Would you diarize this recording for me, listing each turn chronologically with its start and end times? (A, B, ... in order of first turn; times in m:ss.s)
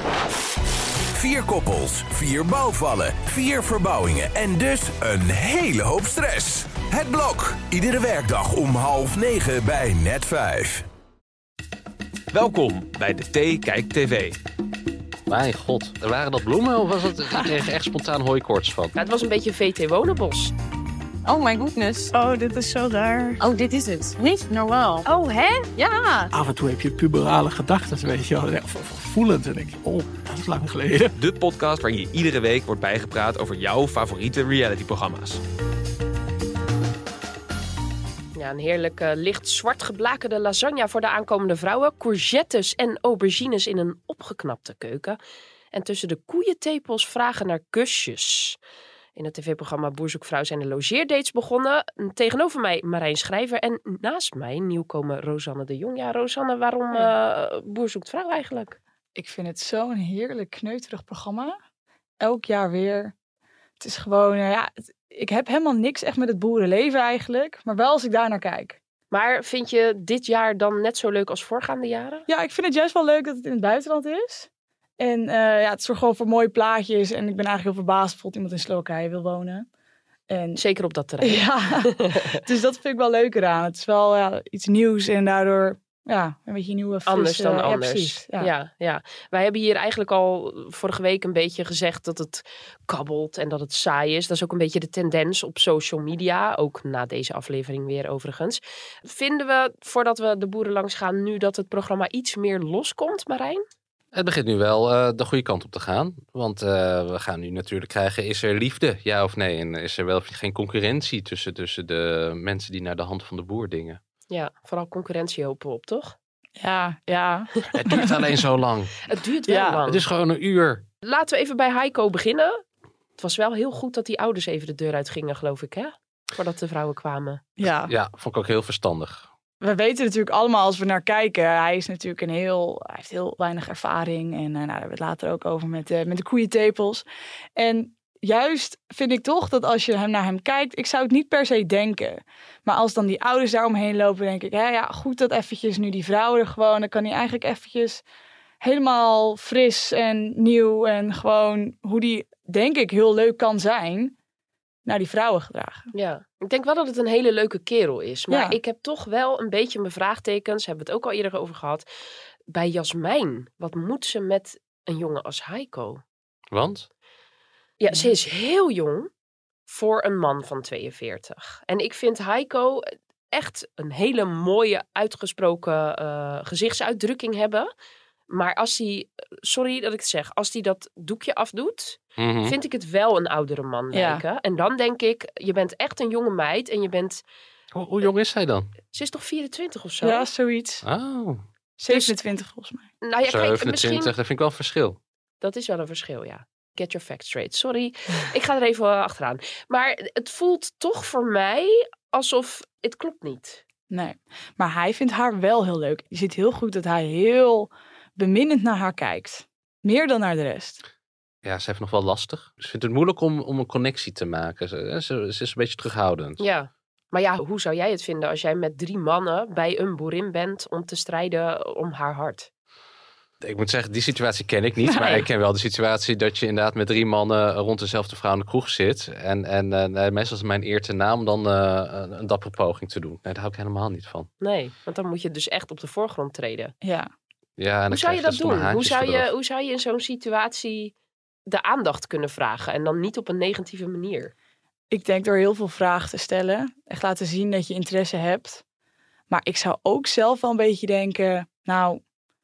0:01.1-0:10.9 A
0:12.3-0:14.4 B
0:15.3-0:19.0 C
0:19.0-0:20.5 D
0:21.3-0:22.0 E
0:22.1-0:23.4 F
0:23.4-0:26.2 E
0:26.3-0:31.0 F
0:31.2-0:35.4 B
0:38.4-0:45.2 D
0:45.7-0:48.6 D
0:49.2-0:58.8 D
0:59.2-1:01.6 G
1:02.2-1:03.1 G
1:03.8-1:08.8 G
1:09.1-1:12.2 D
1:12.3-1:14.5 G
1:15.0-1:19.7 G
1:20.3-1:20.6 G
1:20.6-1:22.4 D
1:21.2-1:28.5 G
1:27.0-1:43.6 D
1:44.1-1:54.0 C
1:54.3-1:56.2 D
1:56.6-1:58.2 G
1:57.7-1:58.9 C
1:59.1-2:00.0 D
1:59.5-1:59.8 G
1:59.9-2:00.8 C
2:01.0-2:02.6 D
2:03.2-2:07.4 D
2:07.6-2:07.9 G
2:07.6-2:09.3 C
2:09.6-2:17.0 G
2:17.6-2:28.0 G
2:28.6-2:34.1 G
2:34.9-2:35.9 G
2:35.9-2:41.9 D
2:38.3-2:38.6 G
2:42.5-2:46.0 D
2:46.5-2:46.9 C
2:47.8-2:49.1 D
2:49.7-2:57.7 D
2:58.3-3:07.2 D
3:02.2-3:02.6 C
3:03.9-3:04.2 G
3:07.7-3:08.7 C
3:08.9-3:10.3 D
3:10.0-3:10.8 G
3:10.8-3:11.4 C
3:11.8-3:12.9 G
3:11.9-3:12.2 D
3:13.0-3:14.1 D
3:13.3-3:15.0 C
3:15.4-3:23.6 D
3:23.9-3:30.8 G
3:31.4-3:36.4 C
3:36.4-3:42.5 D
3:43.4-3:54.3 C
3:45.0-3:45.2 D
3:54.4-3:56.7 D
3:56.8-3:57.1 G
3:57.6-3:59.3 C
3:57.9-4:00.9 D
4:01.5-4:04.3 D
4:04.9-4:08.6 G
4:09.3-4:12.0 G